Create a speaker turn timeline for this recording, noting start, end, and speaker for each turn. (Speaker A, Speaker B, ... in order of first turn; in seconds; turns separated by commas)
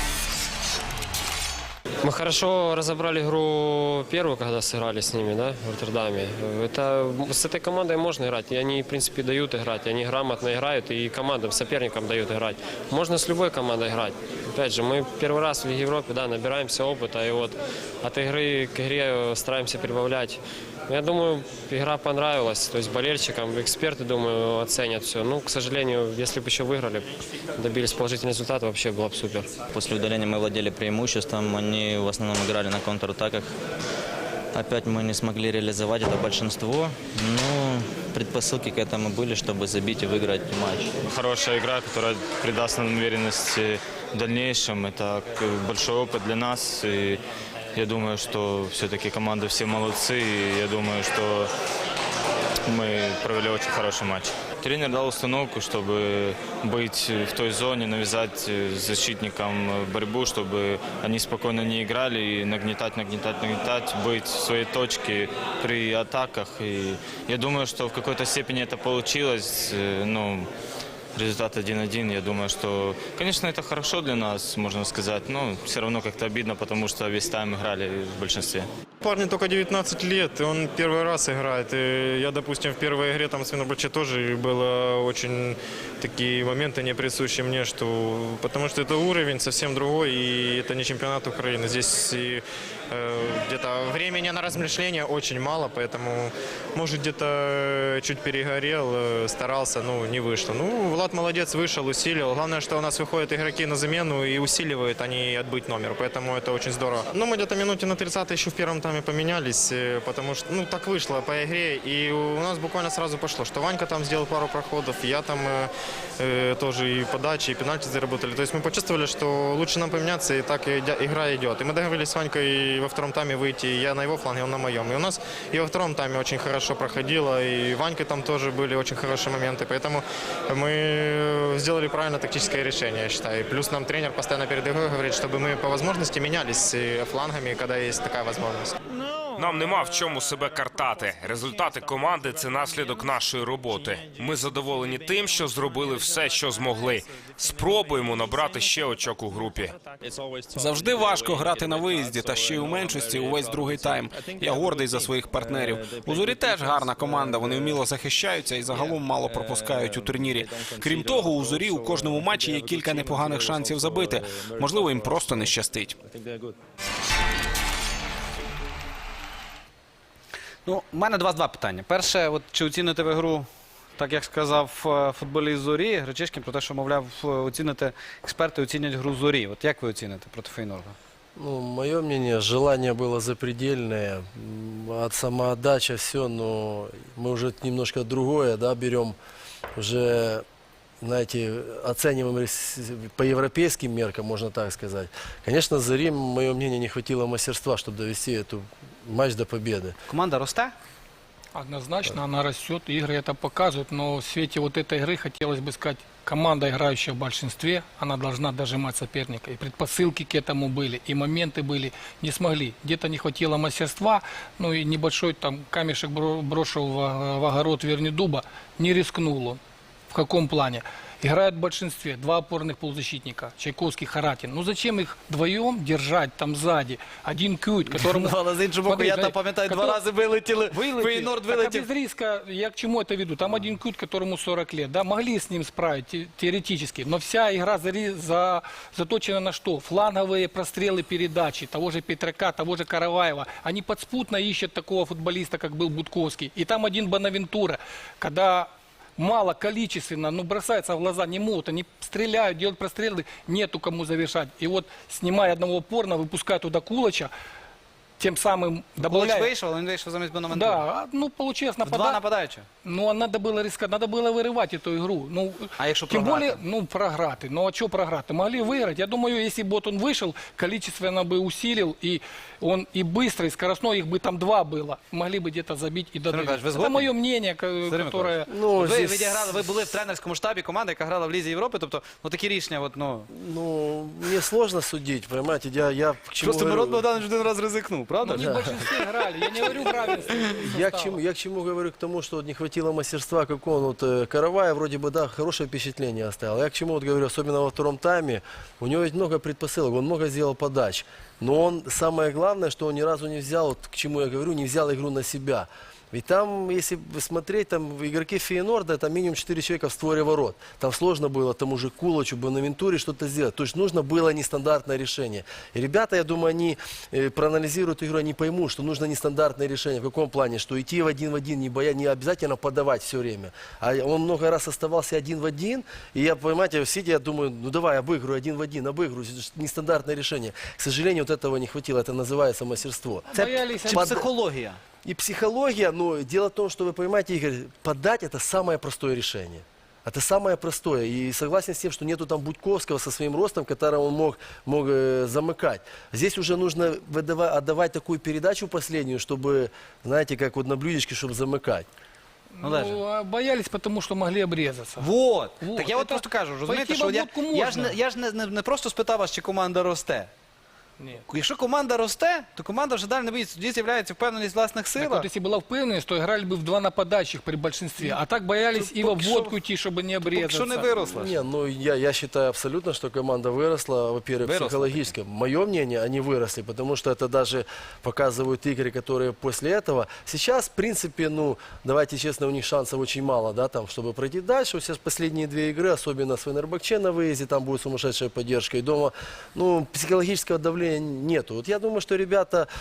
Speaker A: 2.1-27.1, Speaker A: 27.6-29.5, Speaker B: 29.7-32.2, Speaker C: 31.2-33.5, Speaker C: 34.5-47.2, Speaker B: 40.1-40.9, Speaker C: 47.7-51.5, Speaker C: 52.7-70.5, Speaker C: 71.1-78.7, Speaker D: 79.0-138.7, Speaker E: 139.3-149.8, Speaker F: 150.5-166.0, Speaker G: 170.7-181.0, Speaker H: 181.4-189.2, Speaker H: 189.8-190.4, Speaker H: 191.0-199.9, Speaker G: 200.1-200.7, Speaker I: 201.5-230.0, Speaker G: 227.9-231.9, Speaker I: 230.5-257.3, Speaker I: 258.2-259.5, Speaker G: 259.0-260.8, Speaker I: 260.5-262.2, Speaker G: 261.8-262.7, Speaker I: 262.8-278.5, Speaker G: 265.8-266.6, Speaker G: 276.3-277.1, Speaker G: 277.9-283.3, Speaker H: 278.5-279.7, Speaker H: 283.3-287.0, Speaker G: 286.4-288.5, Speaker I: 288.2-291.2, Speaker H: 288.3-288.8, Speaker H: 290.4-334.2, Speaker I: 333.3-334.2, Speaker G: 333.4-334.8, Speaker H: 335.0-351.9, Speaker I: 352.6-358.0, Speaker G: 352.6-353.0, Speaker G: 355.0-360.3, Speaker G: 361.3-365.3, Speaker I: 365.0-371.2, Speaker G: 368.7-369.6, Speaker G: 370.2-371.4, Speaker H: 371.0-392.7, Speaker G: 374.4-375.1